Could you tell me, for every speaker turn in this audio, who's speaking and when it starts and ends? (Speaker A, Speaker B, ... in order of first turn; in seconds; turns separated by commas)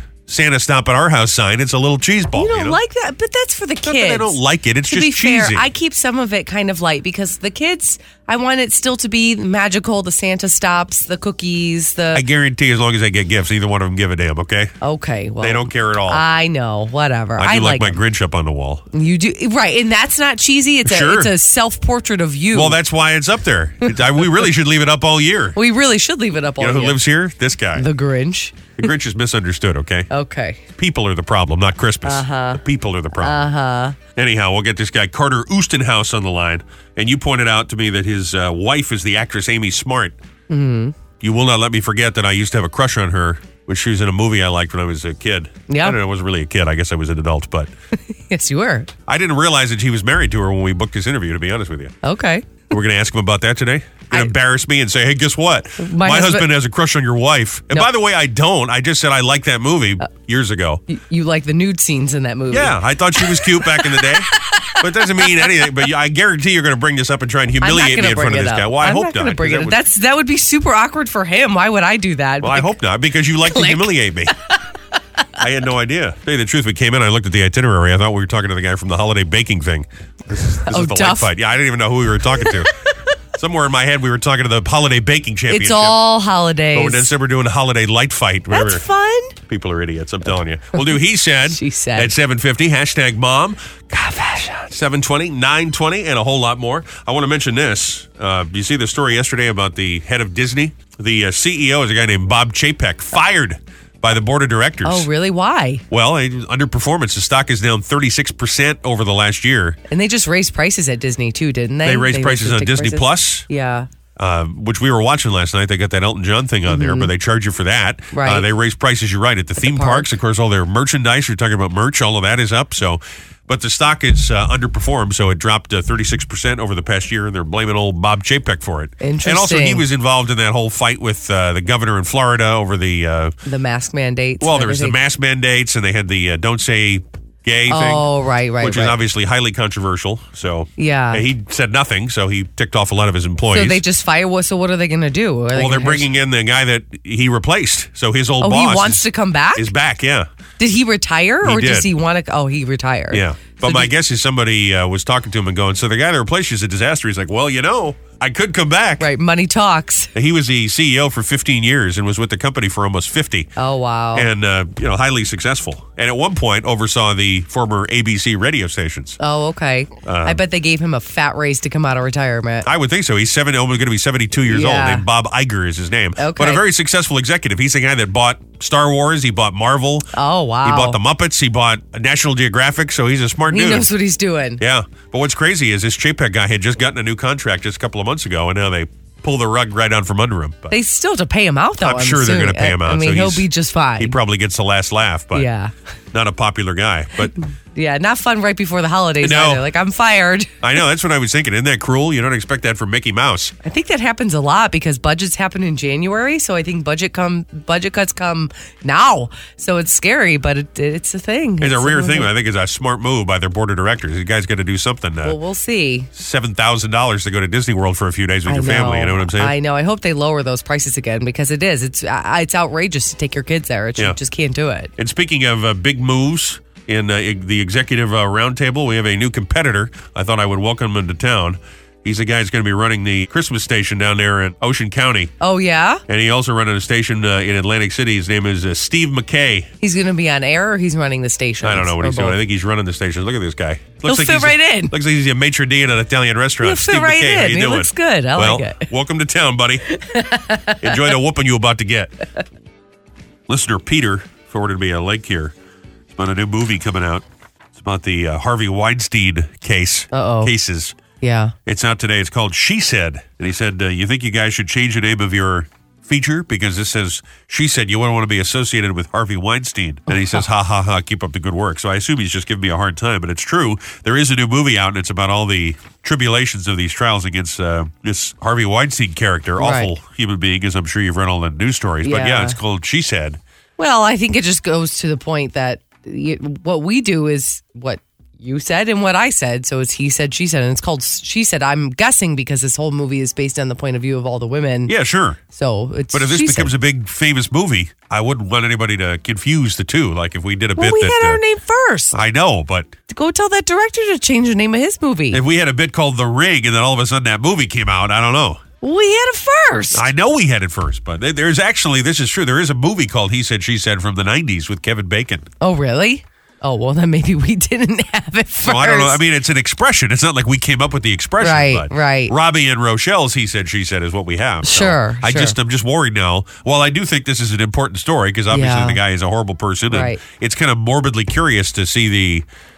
Speaker A: 0.3-2.8, Speaker B: 2.3-12.2, Speaker A: 3.8-5.7, Speaker A: 12.1-14.7, Speaker B: 14.8-18.0, Speaker A: 15.4-16.2, Speaker A: 17.4-18.9, Speaker B: 18.9-22.8, Speaker A: 20.9-21.3, Speaker A: 22.5-25.6, Speaker B: 23.9-24.5, Speaker B: 25.6-27.0, Speaker A: 26.6-27.9, Speaker B: 27.8-28.9, Speaker A: 28.8-30.1, Speaker B: 30.1-30.6, Speaker A: 30.8-33.4, Speaker B: 32.1-32.6, Speaker B: 33.2-34.0, Speaker A: 34.2-40.2, Speaker B: 40.5-41.0, Speaker A: 41.2-47.7, Speaker B: 45.7-46.0, Speaker B: 48.1-48.9, Speaker A: 49.1-51.9, Speaker B: 52.0-52.7, Speaker A: 52.7-60.8, Speaker B: 55.8-56.5, Speaker B: 60.9-65.7, Speaker A: 62.5-69.8, Speaker B: 67.6-72.7, Speaker A: 72.4-74.3, Speaker B: 73.5-73.9, Speaker A: 75.4-82.7, Speaker B: 80.7-81.3, Speaker A: 83.4-86.0, Speaker B: 85.5-87.1, Speaker A: 86.7-88.8, Speaker B: 88.5-89.4, Speaker A: 89.5-105.1, Speaker B: 91.5-92.1, Speaker B: 94.0-94.5, Speaker B: 104.8-105.8, Speaker A: 105.9-109.8, Speaker B: 109.9-113.9, Speaker A: 111.8-113.5, Speaker A: 114.2-133.3, Speaker B: 116.7-117.1, Speaker B: 118.1-118.5, Speaker B: 119.6-120.1, Speaker B: 129.0-129.8, Speaker B: 133.5-135.0, Speaker A: 134.4-138.1, Speaker B: 137.7-139.0, Speaker A: 138.6-143.8, Speaker B: 140.8-141.2, Speaker B: 143.5-146.1, Speaker A: 145.6-149.1, Speaker B: 148.4-149.7, Speaker A: 149.6-150.3, Speaker B: 150.6-153.9, Speaker A: 151.4-151.9, Speaker A: 153.1-159.1, Speaker B: 159.0-160.1, Speaker A: 160.2-163.5, Speaker B: 163.6-164.3, Speaker A: 164.2-169.2, Speaker B: 169.2-172.7, Speaker A: 170.1-170.4, Speaker A: 172.7-180.1, Speaker B: 174.5-175.0, Speaker B: 176.2-176.6, Speaker B: 180.1-181.0, Speaker A: 180.6-183.9, Speaker B: 183.5-184.6, Speaker A: 184.6-190.8, Speaker B: 190.7-194.2, Speaker A: 191.8-193.5, Speaker A: 194.0-195.5, Speaker B: 195.3-195.7, Speaker A: 196.1-197.3, Speaker B: 197.8-200.7, Speaker A: 199.2-199.6, Speaker A: 200.6-203.5, Speaker B: 203.6-212.3, Speaker A: 211.6-215.4, Speaker B: 215.2-216.1, Speaker A: 216.2-219.5, Speaker B: 218.5-224.9, Speaker A: 225.0-235.3, Speaker B: 235.4-236.0, Speaker A: 236.1-239.7, Speaker B: 239.8-242.4, Speaker A: 241.6-249.8, Speaker B: 244.0-244.9, Speaker B: 246.6-248.9, Speaker B: 249.9-251.2, Speaker A: 250.8-252.2, Speaker A: 253.5-255.5, Speaker A: 256.2-257.2, Speaker A: 257.8-260.9, Speaker B: 260.1-260.5, Speaker B: 261.2-261.5, Speaker A: 261.7-283.4, Speaker B: 270.1-270.4, Speaker B: 279.6-279.9, Speaker B: 282.0-282.6, Speaker B: 283.8-294.9, Speaker A: 294.9-295.4, Speaker B: 295.5-296.7, Speaker A: 296.1-301.4, Speaker B: 300.8-302.1, Speaker A: 302.1-302.9, Speaker B: 303.1-305.4, Speaker A: 305.3-308.6, Speaker B: 308.8-310.1, Speaker A: 309.9-315.5, Speaker B: 315.6-319.2, Speaker A: 318.6-332.4, Speaker B: 321.4-322.3, Speaker B: 324.6-325.6, Speaker B: 328.5-329.0, Speaker B: 329.9-330.2